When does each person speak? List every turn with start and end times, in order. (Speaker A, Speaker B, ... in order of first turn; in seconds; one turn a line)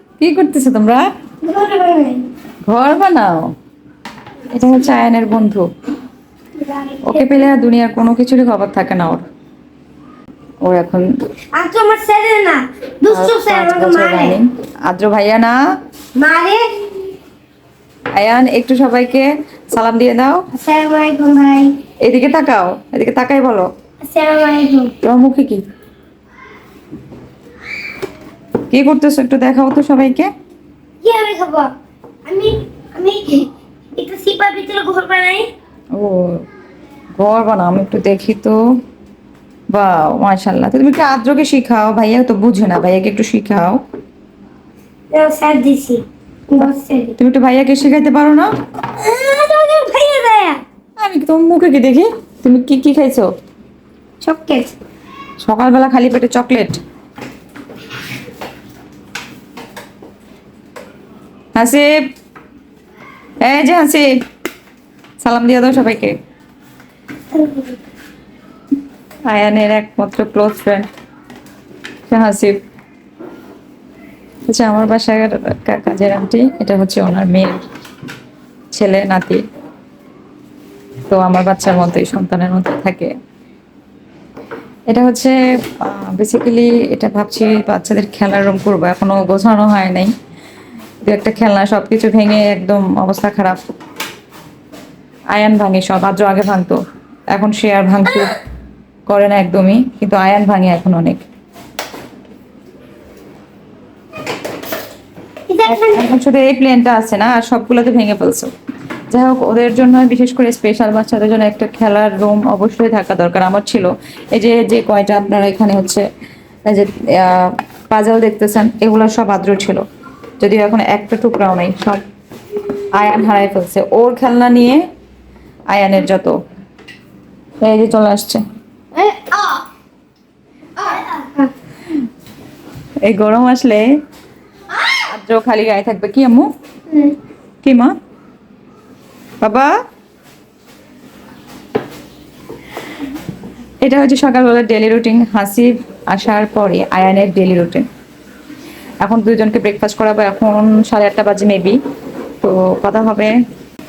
Speaker A: 0.2-1.0
Speaker B: 1.4-2.3
Speaker A: 2.6-3.5
Speaker A: 4.5-5.7
Speaker B: 6.6-7.5
Speaker A: 7.0-9.2
Speaker A: 10.6-11.1
Speaker B: 11.6-14.4
Speaker A: 13.1-15.6
Speaker B: 16.2-16.6
Speaker A: 18.1-20.4
Speaker B: 20.5-21.8
Speaker A: 22.0-23.7
Speaker B: 24.0-24.9
Speaker A: 25.0-25.6
Speaker A: 28.7-30.3
Speaker B: 31.0-31.7
Speaker B: 32.3-35.5
Speaker A: 36.0-36.5
Speaker A: 37.2-38.6
Speaker A: 39.7-43.8
Speaker B: 45.1-47.2
Speaker A: 47.2-48.5
Speaker B: 49.0-50.6
Speaker A: 51.0-53.3
Speaker B: 54.2-54.7
Speaker A: 55.4-56.8
Speaker A: 61.6-61.9
Speaker A: 63.4-64.1
Speaker A: 65.2-66.2
Speaker B: 67.3-67.8
Speaker A: 69.3-70.9
Speaker A: 72.1-72.6
Speaker A: 74.5-77.6
Speaker A: 78.7-79.4
Speaker A: 81.1-83.1
Speaker A: 84.9-90.1
Speaker A: 91.0-93.6
Speaker A: 95.3-96.8
Speaker A: 97.3-98.4
Speaker A: 99.1-101.2
Speaker B: 105.5-106.1
Speaker A: 105.7-108.5
Speaker A: 109.1-116.0
Speaker A: 116.7-119.8
Speaker A: 120.4-122.0
Speaker A: 122.9-124.8
Speaker A: 125.7-126.4
Speaker A: 127.6-128.4
Speaker B: 128.9-129.6
Speaker B: 130.8-131.5
Speaker A: 133.0-133.9
Speaker A: 135.0-136.5
Speaker B: 136.9-137.2
Speaker A: 137.6-137.9
Speaker A: 139.4-139.7
Speaker A: 143.8-147.9
Speaker A: 149.0-151.8
Speaker A: 152.4-153.3